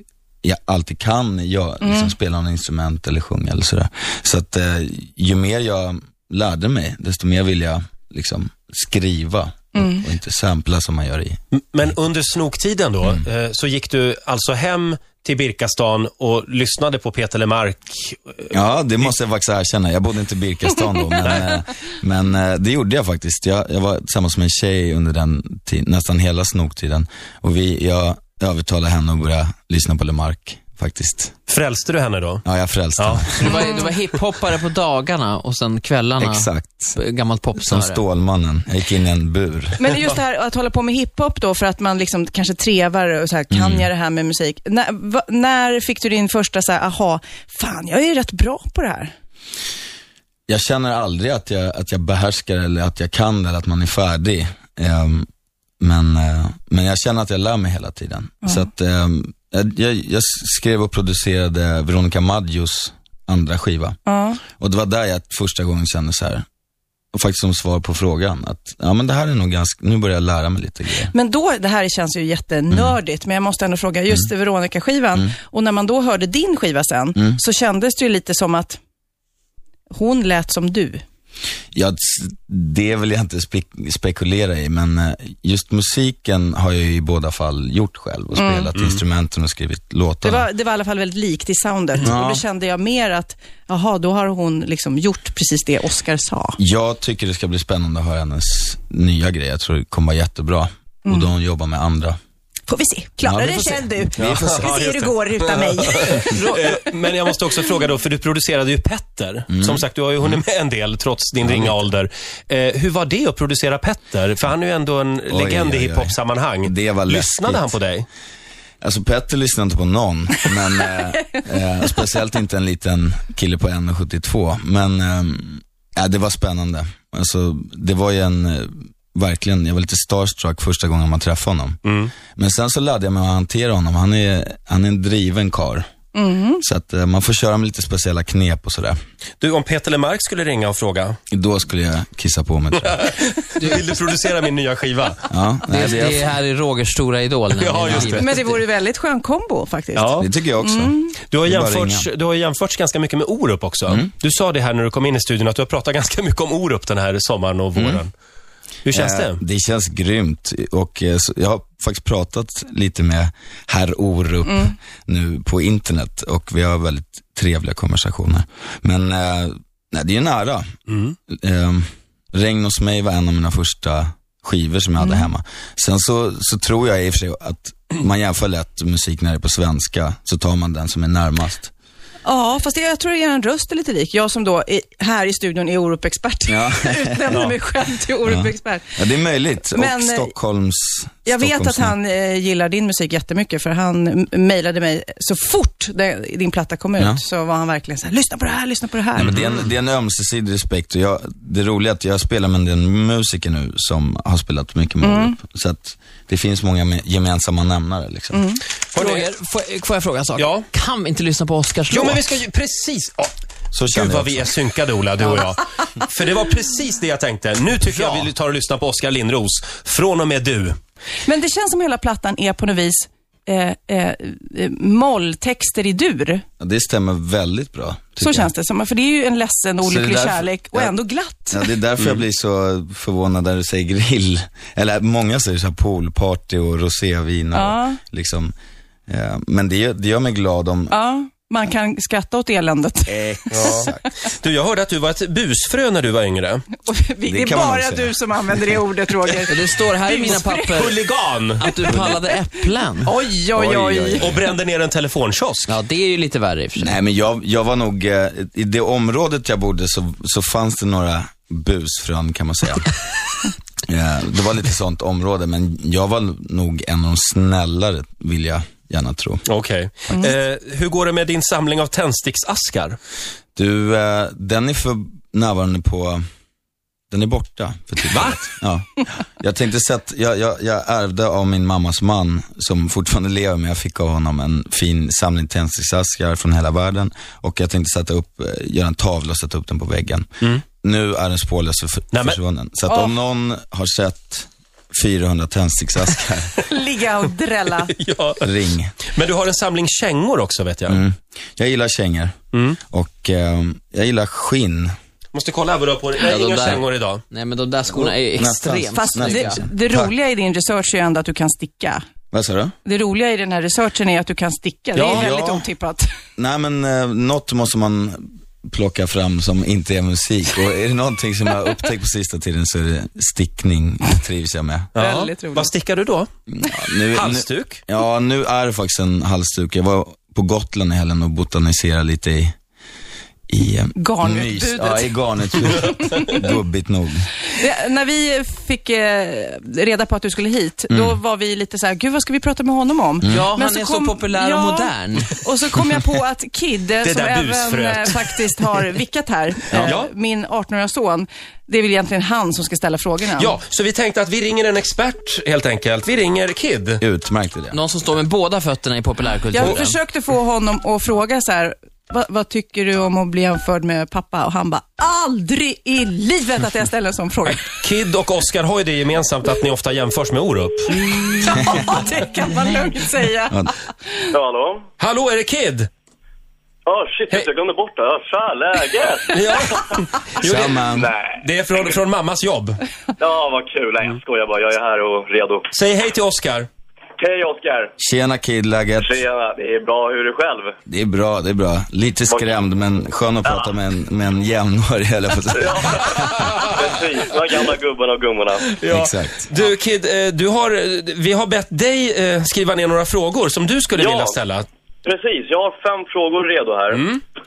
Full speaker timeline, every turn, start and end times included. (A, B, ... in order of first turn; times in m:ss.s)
0:00.4-0:11.4 A
0:01.8-0:02.1 B
0:09.7-0:10.0 B
0:11.5-0:19.2 C
0:18.5-0:31.4 A
0:31.5-0:32.4 C
0:32.4-0:33.5 A
0:33.0-0:33.4 C
0:33.3-0:38.0 D
0:36.2-0:36.9 A
0:37.6-0:39.8 A
0:39.8-0:49.1 B
0:43.5-0:43.9 A
0:50.5-0:55.3 A
0:55.8-1:04.0 A
1:04.0-1:04.4 B
1:04.6-1:06.4 A
1:07.1-1:11.1 A
1:11.1-1:18.8 B
1:12.7-1:13.0 A
1:19.9-1:21.0 B
1:21.7-1:30.5 A
1:28.3-1:28.7 B
1:28.7-1:29.0 C
1:30.2-1:36.6 B
1:32.0-1:32.4 A
1:36.6-1:42.2 A
1:41.0-1:41.3 B
1:42.7-1:46.4 B
1:43.2-1:44.8 A
1:44.2-1:58.1 C
1:49.5-1:49.8 A
1:51.4-1:51.8 A
1:55.3-1:57.7 A
1:58.8-2:11.8 A
2:11.8-2:12.1 C
2:12.3-2:15.9 A
2:16.1-2:16.6 B
2:16.6-2:19.0 A
2:19.4-2:21.2 C
2:21.3-2:23.0 A
2:22.8-2:25.2 C
2:23.6-2:23.9 D
2:25.3-2:26.3 A
2:25.7-2:28.6 D
2:27.5-2:28.3 C
2:28.1-2:31.1 B
2:29.9-2:30.3 C
2:30.2-2:32.1 A
2:31.3-2:38.1 C
2:37.7-2:38.0 A
2:38.8-2:39.4 C
2:38.9-2:50.7 A
2:50.9-2:51.1 C
2:51.3-3:01.7 A
2:55.0-2:55.3 B
3:02.2-3:09.0 B
3:06.5-3:07.5 A
3:08.2-3:12.0 A
3:09.7-3:10.3 B
3:11.2-3:19.3 B
3:17.0-3:17.2 A
3:19.1-3:28.5 A
3:19.2-3:19.7 C
3:25.0-3:25.4 B
3:28.3-3:28.6 B
3:28.9-3:29.3 C
3:28.9-3:32.3 D
3:30.4-3:30.7 C
3:31.9-3:33.3 C
3:33.7-3:34.5 A
3:33.9-3:40.8 C
3:41.2-3:46.4 B
3:46.6-3:48.5 A
3:48.2-3:51.7 B
3:49.8-3:51.0 A
3:51.5-3:58.5 A
3:57.5-3:58.0 B
3:59.1-4:01.0 A
4:00.9-4:03.9 B
4:03.0-4:04.0 A
4:03.5-4:06.6 C
4:06.8-4:10.8 B
4:07.2-4:08.7 A
4:09.5-4:11.0 D
4:10.2-4:11.7 C
4:11.6-4:13.1 D
4:13.0-4:14.3 B
4:13.5-4:14.4 A
4:14.2-4:15.7 C
4:15.7-4:17.0 D
4:16.8-4:23.0 A
4:23.9-4:29.5 A
4:29.5-4:33.0 C
4:33.6-4:36.2 A
4:37.1-4:50.3 A
4:38.1-4:38.5 C
4:50.8-4:56.6 A
4:52.1-4:52.4 C
4:52.9-4:53.1 B
4:56.6-4:57.9 B
4:58.0-4:58.5 C
4:58.4-4:58.9 A
4:59.1-5:01.0 C
5:00.9-5:02.3 A
5:02.5-5:02.8 C
5:02.9-5:04.9 A
5:05.3-5:07.2 C
5:06.2-5:06.8 A
5:06.2-5:09.6 D
5:07.9-5:10.1 A
5:08.9-5:12.0 B
5:12.3-5:12.7 A
5:12.8-5:16.0 B
5:14.9-5:15.3 C
5:15.0-5:15.7 A
5:16.4-5:24.9 A
5:24.9-5:26.3 C
5:25.0-5:25.7 B
5:26.5-5:32.5 A
5:27.1-5:27.8 C
5:33.5-5:37.3 A
5:34.0-5:36.4 B
5:37.5-5:53.6 B
5:40.9-5:41.2 A
5:43.2-5:43.5 A
5:43.2-5:45.3 D
5:47.0-5:48.4 C
5:49.8-5:50.1 C
5:53.4-5:57.0 C
5:57.0-5:57.8 A
5:57.7-6:00.0 D
5:59.5-6:07.7 B
6:07.7-6:11.0 C
6:11.0-6:14.3 B
6:14.3-6:14.8 E
6:15.0-6:15.9 C
6:16.8-6:19.6 E
6:19.3-6:22.8 C
6:20.4-6:21.1 A
6:20.9-6:21.8 E
6:23.2-6:25.7 E
6:25.7-6:26.7 C
6:27.2-6:27.9 E
6:28.0-6:29.2 A
6:29.0-6:30.8 E
6:30.9-6:36.5 A
6:32.3-6:32.6 E
6:33.4-6:33.7 E
6:35.5-6:38.8 E
6:38.8-6:44.6 C
6:38.9-6:39.5 A
6:44.0-6:44.4 E
6:45.0-6:47.1 E
6:46.9-6:47.2 C